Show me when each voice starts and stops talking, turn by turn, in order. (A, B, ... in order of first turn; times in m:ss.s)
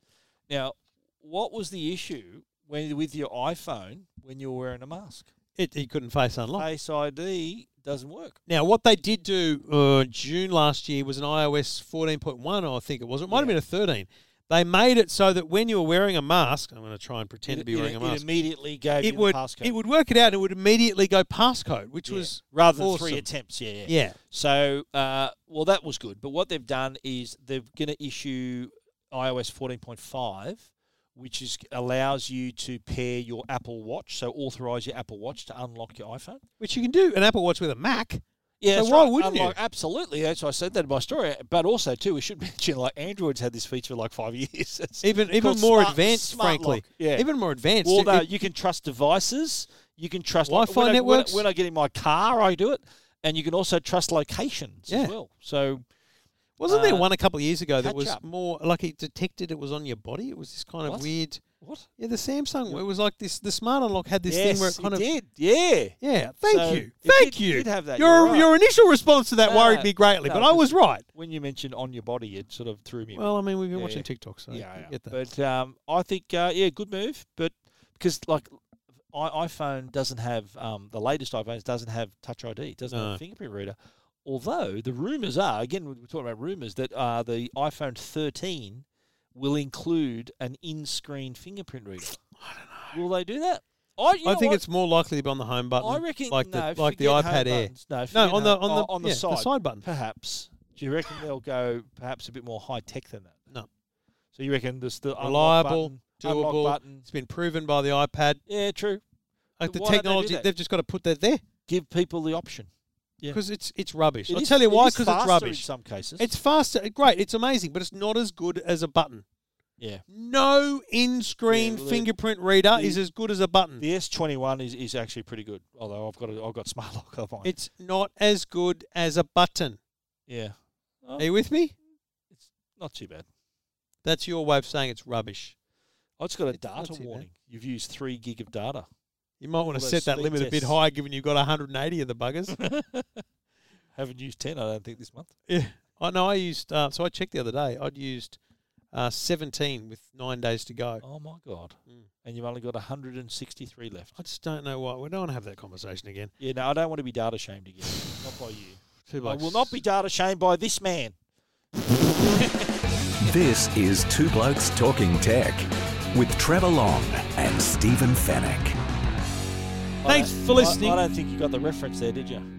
0:00.5-0:05.3 A
0:05.6-0:06.6 B
0:06.6-0:08.4 A
0:08.5-0:18.2 B
0:13.3-0:13.6 A
0:17.5-0:19.7 A
0:19.0-0:23.3 B
0:22.1-0:36.4 A
0:23.8-0:24.2 B
0:36.6-0:39.6 B
0:38.6-0:47.3 A
0:45.0-0:48.3 B
0:47.8-0:55.8 A
0:50.4-0:51.4 B
0:54.9-0:55.1 B
0:56.6-1:01.4 B
0:56.7-0:57.1 A
0:57.8-0:58.2 A
1:00.8-1:01.9 A
1:02.0-1:05.1 B
1:04.3-1:08.5 A
1:06.0-1:11.0 B
1:09.4-1:18.6 A
1:13.1-1:15.2 B
1:19.1-1:32.2 A
1:22.9-1:23.2 B
1:32.4-1:33.0 B
1:32.9-1:34.6 A
1:34.2-1:39.8 B
1:35.8-1:43.4 A
1:44.3-1:47.0 A
1:45.2-1:48.4 B
1:48.5-1:49.0 A
1:49.6-1:51.4 B
1:49.6-1:50.5 A
1:51.7-1:52.7 A
1:53.3-1:55.6 B
1:54.3-1:56.3 A
1:56.2-1:59.2 B
1:59.8-2:00.0 A
2:00.1-2:03.8 B
2:01.5-2:02.1 A
2:02.7-2:03.0 A
2:03.8-2:07.5 A
2:07.4-2:09.8 B
2:10.3-2:11.2 A
2:11.2-2:11.7 B
2:12.3-2:13.2 A
2:14.0-2:15.5 B
2:16.2-2:18.8 A
2:16.5-2:17.2 B
2:19.4-2:22.6 B
2:19.7-2:20.8 A
2:22.5-2:23.2 A
2:24.0-2:25.3 A
2:25.5-2:28.4 B
2:28.9-2:31.0 B
2:31.0-2:34.2 A
2:34.2-2:36.3 B
2:36.4-2:41.1 A
2:39.0-2:39.8 B
2:42.1-2:42.8 A
2:43.2-2:48.8 C
2:50.0-2:52.5 A
2:50.0-2:51.0 B